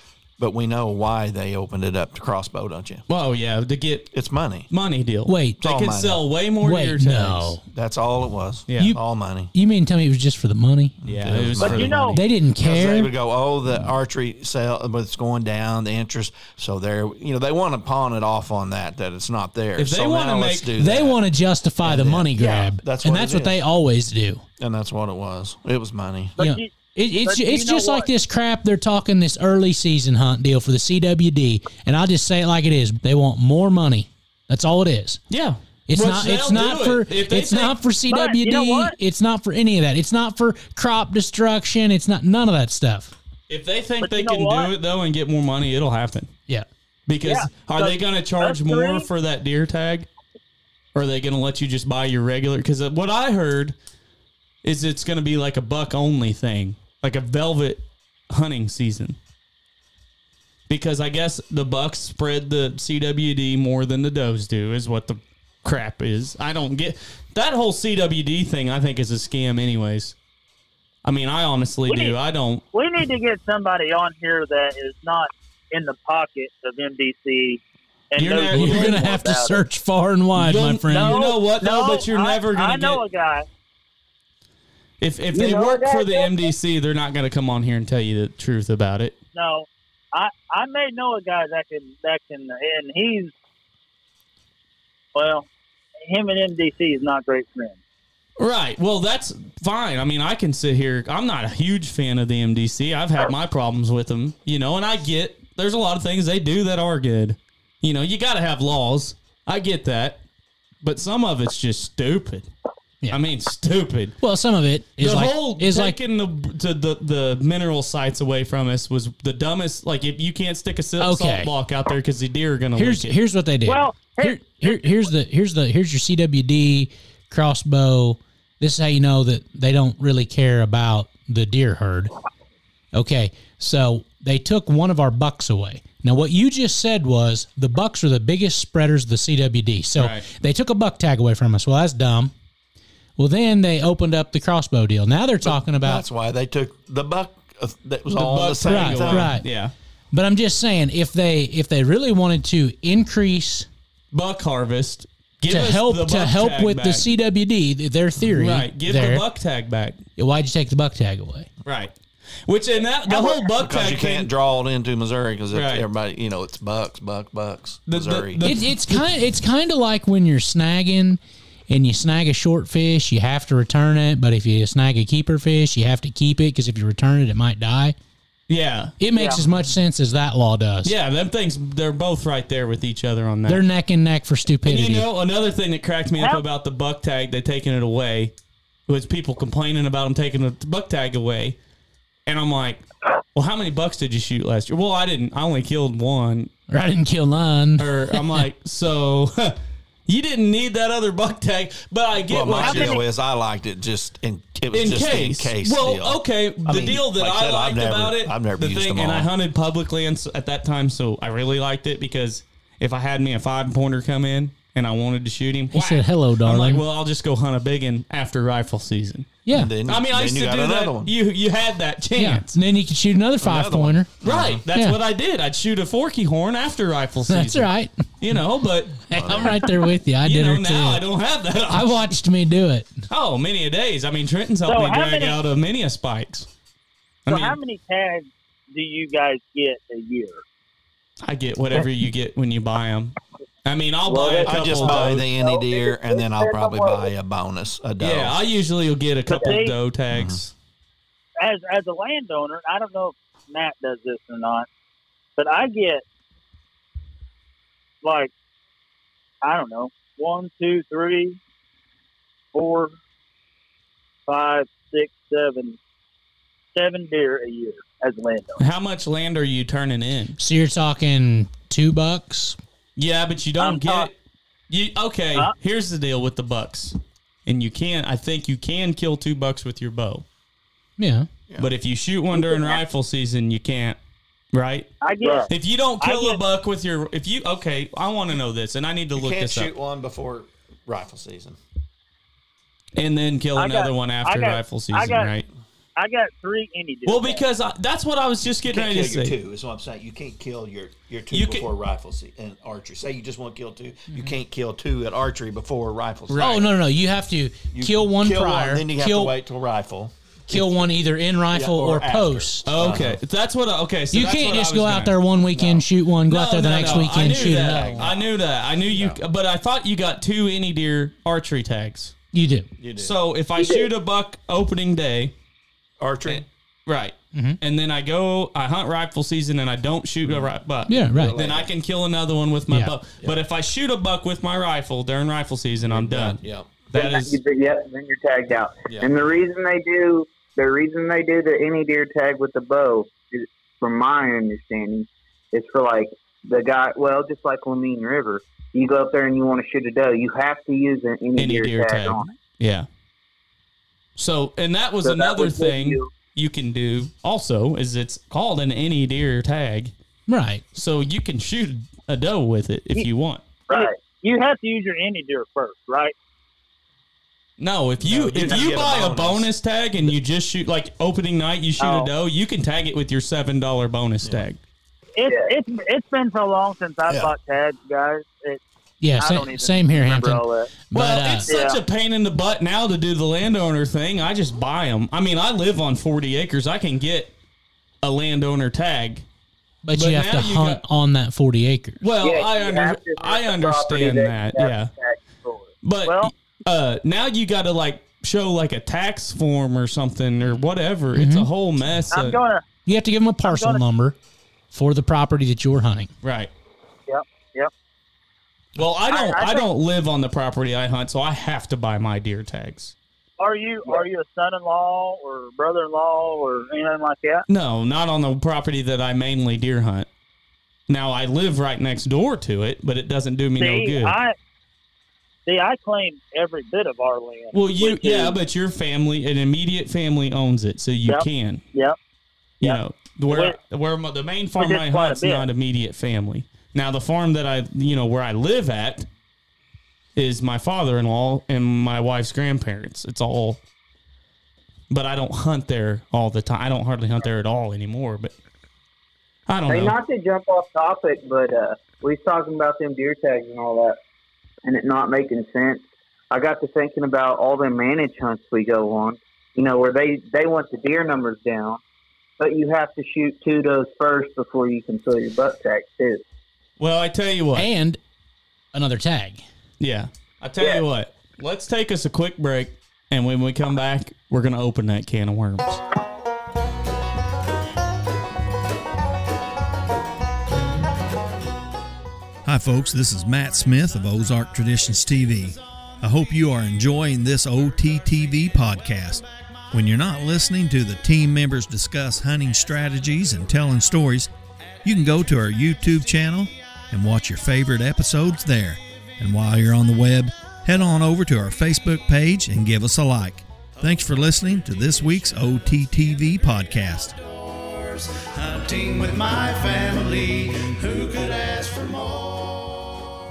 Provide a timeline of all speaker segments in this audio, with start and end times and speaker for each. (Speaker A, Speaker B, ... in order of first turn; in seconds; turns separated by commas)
Speaker A: 0.4-3.0, Speaker B: 3.1-4.1, Speaker A: 4.1-4.7, Speaker B: 4.7-7.6, Speaker C: 5.2-5.6, Speaker A: 5.6-6.2, Speaker C: 6.6-7.6, Speaker A: 7.7-9.5, Speaker B: 8.7-8.9, Speaker C: 9.5-11.0, Speaker A: 11.0-21.2, Speaker B: 11.0-12.2, Speaker D: 11.6-12.2, Speaker C: 12.1-13.1, Speaker B: 19.8-20.7, Speaker C: 20.8-24.4, Speaker A: 21.8-23.6, Speaker A: 24.6-26.4, Speaker D: 26.4-28.1, Speaker C: 26.4-35.2, Speaker B: 35.3-37.8, Speaker C: 35.9-43.1, Speaker D: 38.1-38.9, Speaker B: 43.5-46.3, Speaker D: 44.0-44.7, Speaker B: 47.1-50.1, Speaker D: 47.2-49.1, Speaker B: 50.9-53.7, Speaker B: 54.6-59.2, Speaker B: 60.7-70.2, Speaker B: 71.0-72.6, Speaker D: 71.9-72.2, Speaker D: 72.7-79.6, Speaker B: 78.2-79.0, Speaker C: 78.5-81.2, Speaker B: 80.3-83.0, Speaker D: 80.9-83.5, Speaker B: 85.0-89.1, Speaker E: 85.3-86.5, Speaker D: 89.3-93.3, Speaker D: 95.1-95.5, Speaker D: 96.0-97.8, Speaker B: 98.4-110.2, Speaker B: 110.8-112.5, Speaker B: 113.1-114.2, Speaker C: 114.2-116.0, Speaker B: 115.0-123.2, Speaker C: 121.0-121.5, Speaker C: 122.8-132.1, Speaker D: 123.6-125.1, Speaker C: 132.9-142.3, Speaker B: 140.0-140.2, Speaker C: 143.2-146.0, Speaker A: 145.4-149.3, Speaker B: 148.2-149.7, Speaker C: 148.7-149.4, Speaker C: 150.1-153.7, Speaker B: 154.1-157.1, Speaker C: 155.5-159.2, Speaker B: 158.2-160.0, Speaker C: 160.2-161.5, Speaker B: 161.6-161.9, Speaker B: 162.4-164.3, Speaker D: 163.1-163.4, Speaker A: 163.6-168.4, Speaker B: 165.5-165.8, Speaker B: 167.9-169.1, Speaker C: 168.4-177.9, Speaker B: 178.5-178.9, Speaker C: 179.0-180.9, Speaker D: 179.1-179.4, Speaker B: 180.8-183.6, Speaker C: 183.5-185.1, Speaker B: 184.6-188.3, Speaker B: 188.9-191.6, Speaker B: 192.2-192.8, Speaker B: 193.3-196.5, Speaker C: 196.7-198.4, Speaker B: 197.8-203.0, Speaker A: 202.3-209.3, Speaker D: 202.6-203.0, Speaker B: 204.7-222.6, Speaker C: 215.7-216.8, Speaker C: 219.4-219.7, Speaker A: 219.5-221.1, Speaker C: 222.2-224.1, Speaker A: 223.4-224.6, Speaker B: 224.2-229.5, Speaker C: 227.3-228.0, Speaker C: 229.1-231.0, Speaker A: 229.1-229.6, Speaker B: 230.2-232.1, Speaker C: 231.7-233.0, Speaker B: 233.1-236.5, Speaker D: 234.7-235.4, Speaker B: 237.2-237.6, Speaker D: 237.3-240.4, Speaker B: 241.2-245.2, Speaker E: 244.1-247.1, Speaker A: 244.4-248.4, Speaker B: 248.0-250.5, Speaker D: 249.3-249.8, Speaker A: 250.1-250.4, Speaker D: 251.4-254.7, Speaker D: 255.4-256.0, Speaker D: 258.0-258.3, Speaker D: 259.4-261.4, Speaker D: 262.5-262.9, Speaker D: 264.3-265.8, Speaker D: 266.7-268.6, Speaker B: 268.6-270.4, Speaker C: 270.4-272.6, Speaker B: 272.9-274.1, Speaker D: 273.6-274.1, Speaker B: 274.7-280.2, Speaker C: 281.0-281.3, Speaker B: 281.6-284.0, Speaker B: 284.5-284.9, Speaker D: 285.0-286.4, Speaker E: 285.2-285.5, Speaker B: 285.5-289.7, Speaker A: 289.1-291.6, Speaker B: 292.9-295.5, Speaker D: 293.6-295.4, Speaker D: 295.9-297.4, Speaker B: 297.1-299.4, Speaker A: 298.4-306.6, Speaker B: 301.3-301.7, Speaker B: 306.3-306.7, Speaker C: 306.4-309.3, Speaker A: 307.7-310.9, Speaker C: 310.5-312.6, Speaker A: 311.5-313.2, Speaker B: 312.6-315.1, Speaker C: 314.1-318.1, Speaker A: 315.5-315.8, Speaker B: 316.3-322.1, Speaker A: 316.8-318.3, Speaker A: 318.9-319.2, Speaker C: 322.3-322.7, Speaker A: 322.8-323.1, Speaker B: 322.9-325.3, Speaker E: 323.6-323.9, Speaker A: 326.0-326.4, Speaker B: 326.2-337.4, Speaker C: 327.3-327.6, Speaker A: 330.2-331.7, Speaker C: 330.9-331.4, Speaker A: 335.9-336.7, Speaker E: 336.9-352.3, Speaker B: 351.4-352.9, Speaker B: 354.2-359.9, Speaker E: 355.0-356.1, Speaker C: 360.3-360.6, Speaker B: 360.7-363.5, Speaker E: 363.7-364.0, Speaker D: 363.7-366.1, Speaker B: 367.6-374.6, Speaker A: 368.0-369.5, Speaker D: 371.8-372.1, Speaker D: 375.1-378.6, Speaker C: 379.0-381.5, Speaker D: 379.2-380.7, Speaker B: 380.9-387.3, Speaker D: 381.5-381.8, Speaker B: 388.0-389.2, Speaker C: 389.8-392.0, Speaker B: 389.9-390.8, Speaker B: 392.0-394.9, Speaker E: 392.2-395.7, Speaker B: 395.8-402.4, Speaker D: 396.0-396.3, Speaker C: 401.1-401.5, Speaker D: 402.1-402.6, Speaker C: 402.9-404.2, Speaker D: 403.4-403.8, Speaker C: 404.7-406.1, Speaker B: 406.2-406.5, Speaker D: 407.1-407.7, Speaker B: 408.8-412.9, Speaker D: 409.1-409.7, Speaker D: 413.4-417.4, Speaker B: 417.5-420.1, Speaker B: 420.9-424.1, Speaker D: 423.6-424.3, Speaker D: 425.4-428.4, Speaker B: 427.5-431.6, Speaker D: 431.1-432.0, Speaker D: 432.6-433.6, Speaker B: 432.6-439.1, Speaker D: 434.6-435.4, Speaker B: 440.1-443.6, Speaker B: 444.9-448.3, Speaker B: 449.5-449.9, Speaker E: 449.7-454.0, Speaker E: 454.6-461.8, Speaker E: 462.4-466.2, Speaker B: 466.8-467.7, Speaker C: 467.5-468.0, Speaker C: 468.7-469.4, Speaker B: 469.8-475.8, Speaker F: 482.4-494.3, Speaker F: 494.8-507.1, Speaker G: 507.2-513.0